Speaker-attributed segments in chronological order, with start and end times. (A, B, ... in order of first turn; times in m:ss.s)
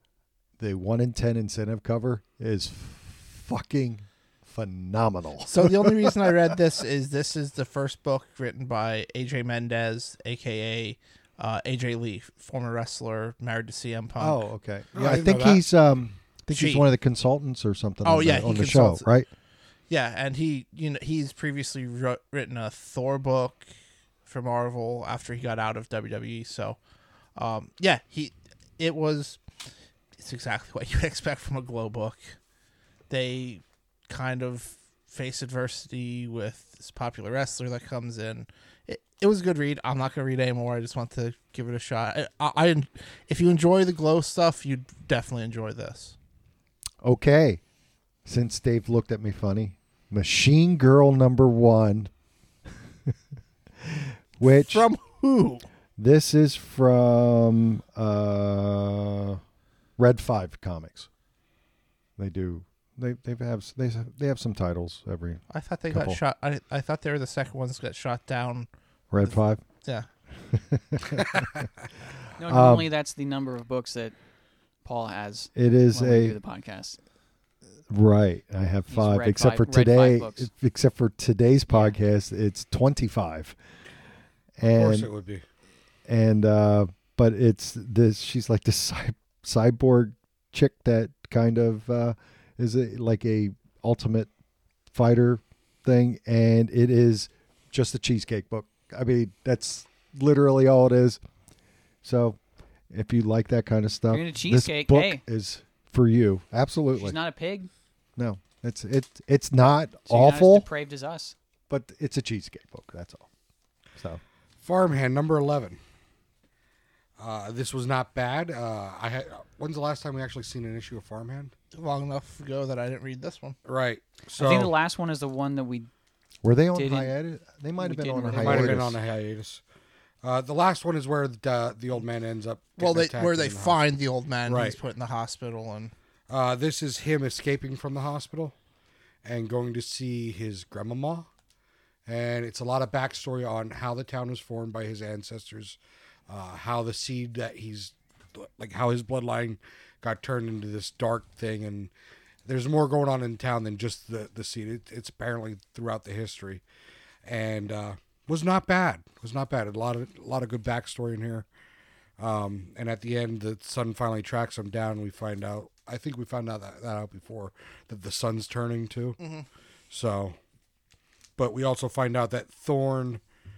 0:00.6-0:06.4 A
0:05.5-0:14.4 B
0:14.2-0:19.3 A
0:15.0-0:15.6 C
0:16.5-0:16.9 B
0:18.0-0:19.0 B
0:19.9-0:23.7 B
0:24.3-0:26.8 B
0:27.4-0:29.4 B
0:30.2-0:32.4 B
0:33.1-0:46.2 B
0:47.0-0:47.6 A
0:48.3-0:52.1 A
0:53.8-0:54.8 A
0:54.5-0:55.7 B
0:56.0-0:59.4 A
1:00.0-1:01.1 A
1:02.2-1:06.2 A
1:05.5-1:08.7 B
1:09.1-1:09.6 A
1:09.2-1:10.1 B
1:10.4-1:11.6 A
1:12.4-1:14.2 D
1:12.5-1:12.9 A
1:14.8-1:17.0 D
1:15.6-1:16.4 A
1:17.9-1:23.6 A
1:18.9-1:20.5 D
1:21.7-1:22.0 D
1:24.6-1:25.1 A
1:24.6-1:25.4 C
1:26.1-1:34.3 A
1:34.9-1:41.2 A
1:42.0-1:42.4 A
1:42.9-1:47.2 A
1:44.1-1:45.2 D
1:47.0-1:47.7 D
1:48.2-1:50.7 A
1:50.1-1:51.4 D
1:51.7-1:53.3 A
1:54.0-1:54.2 A
1:54.6-1:55.8 C
1:57.2-2:01.5 C
2:01.7-2:03.6 B
2:03.6-2:04.7 C
2:04.4-2:05.9 D
2:06.4-2:09.0 A
2:06.7-2:07.1 D
2:07.8-2:08.9 D
2:08.4-2:09.6 C
2:10.2-2:13.8 C
2:12.8-2:15.9 B
2:14.5-2:14.8 C
2:16.3-2:18.5 C
2:19.2-2:21.3 C
2:22.1-2:31.9 C
2:32.4-2:36.6 C
2:37.2-2:41.5 C
2:42.2-2:49.2 C
2:49.2-2:49.5 B
2:49.9-2:50.4 C
2:51.4-2:53.2 C